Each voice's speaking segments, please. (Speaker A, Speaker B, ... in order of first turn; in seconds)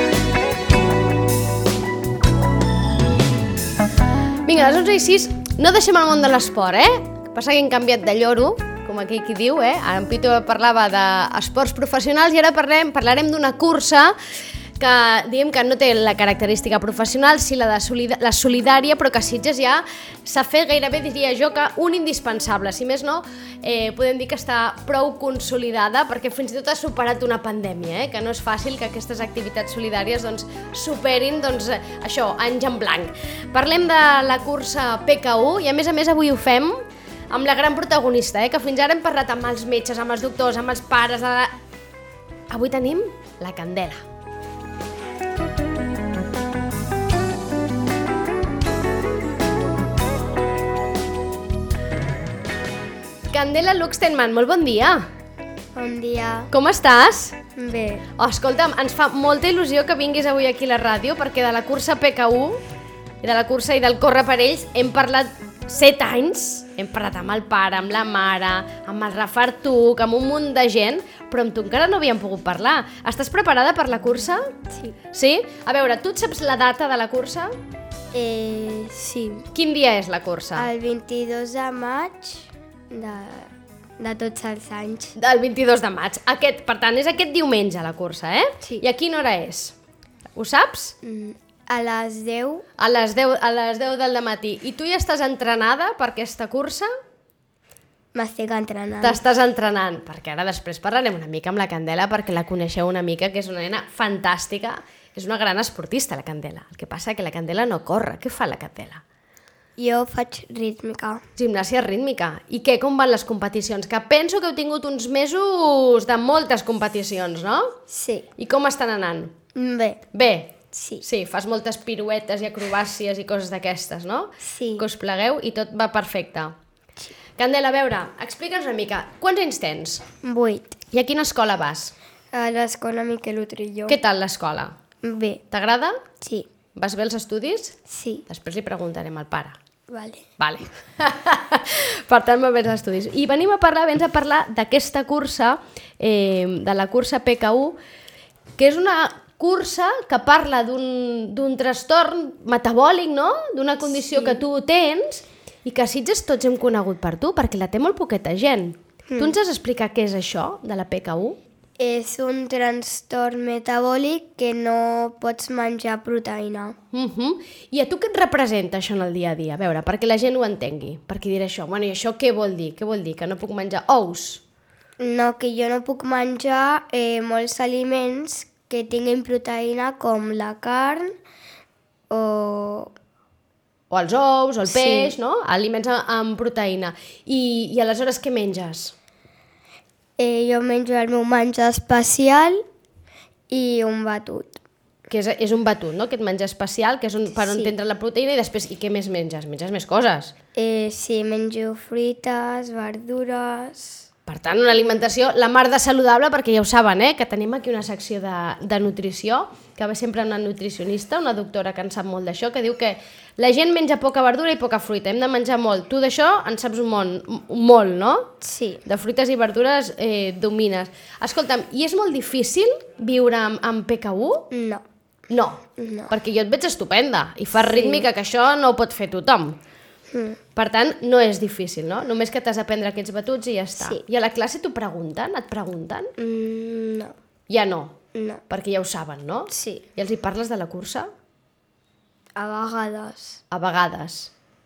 Speaker A: 4.5-14.2, 14.8-41.5, 42.5-44.0, 53.3-55.1, 56.5-57.4, 58.2-62.6, 63.2-74.5, 75.1-77.5, 79.5-80.7, 85.2-89.8, 90.3-91.0, 92.8-96.9, 99.0-109.0, 111.4-117.8, 118.4-119.3, 120.1-126.5, 127.4-130.1, 130.9-131.9, 133.9-134.7, 135.5-136.0, 136.8-139.6, 140.4-147.8, 148.6-161.4, 166.9-174.4, 183.9-188.9, 195.1-200.3, 204.3-218.3, 218.8-224.5, 225.3-229.6, 230.6-236.1, 237.5-238.0, 238.5-241.1, 243.5-244.3
Speaker B: 55.7-56.5, 57.5-58.1, 74.7-75.0, 78.1-79.5, 80.5-85.2, 91.0-92.6, 98.1-99.2, 109.8-111.2, 117.9-118.3, 119.5-120.0, 120.7-121.0, 124.4-124.9, 130.2-130.8, 132.3-134.0, 135.0-135.4, 136.2-136.5, 137.9-138.2, 139.9-140.2, 154.2-154.4, 159.1-159.4, 161.8-166.8, 175.0-181.1, 182.1-182.9, 184.7-185.2, 190.2-192.6, 193.5-194.6, 197.4-197.7, 200.6-204.1, 218.4-218.8, 224.5-224.8, 225.8-226.1, 227.6-228.1, 230.1-230.4, 236.2-237.1, 238.1-238.4, 239.5-239.8, 242.4-243.4